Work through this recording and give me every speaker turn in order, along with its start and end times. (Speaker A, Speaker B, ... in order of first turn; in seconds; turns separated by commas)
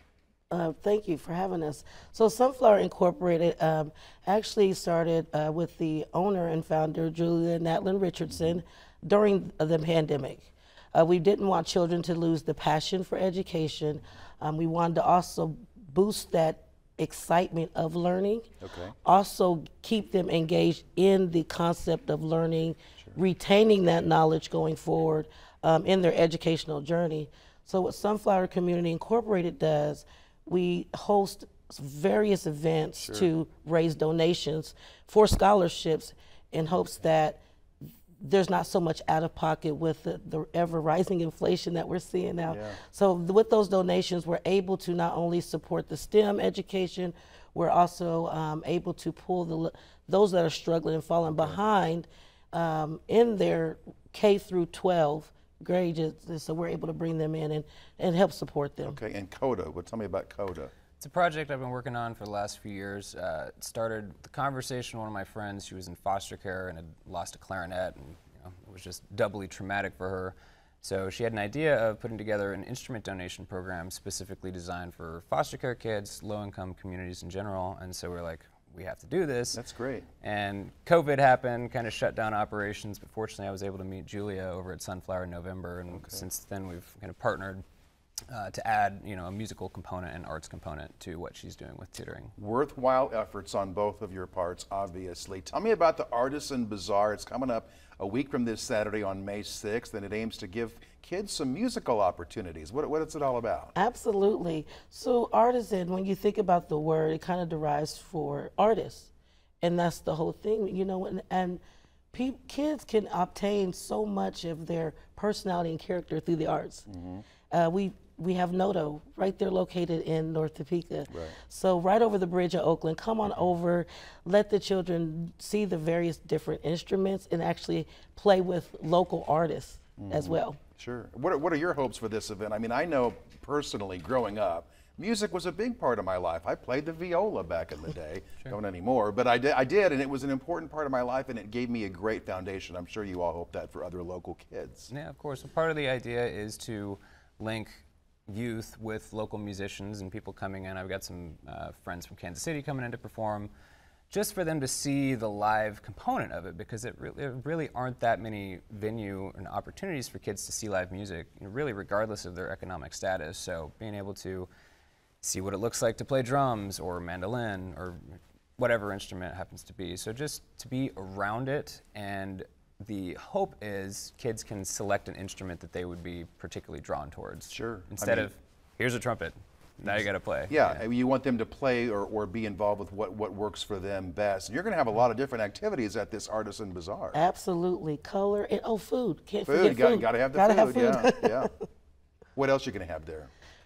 Speaker A: 0.5-18.5, Speaker B: 8.3-8.6, Speaker B: 18.6-19.0, Speaker A: 19.0-37.4, Speaker B: 33.0-33.3, Speaker A: 38.2-59.0, Speaker B: 42.5-42.8, Speaker B: 51.3-51.6, Speaker B: 58.8-60.7, Speaker C: 61.0-79.6, Speaker B: 79.5-80.1, Speaker C: 80.2-87.6, Speaker B: 85.9-86.2, Speaker C: 88.3-92.3, Speaker B: 92.4-103.7, Speaker A: 103.8-109.1, Speaker A: 109.6-111.6, Speaker A: 112.1-116.9, Speaker B: 116.9-117.2, Speaker A: 117.5-130.6, Speaker B: 121.1-121.4, Speaker B: 130.0-144.9, Speaker C: 144.9-153.5, Speaker C: 154.1-164.5, Speaker C: 165.2-180.8, Speaker B: 177.5-178.3, Speaker B: 180.5-187.2, Speaker A: 187.1-191.5, Speaker B: 189.4-191.5, Speaker B: 192.3-193.3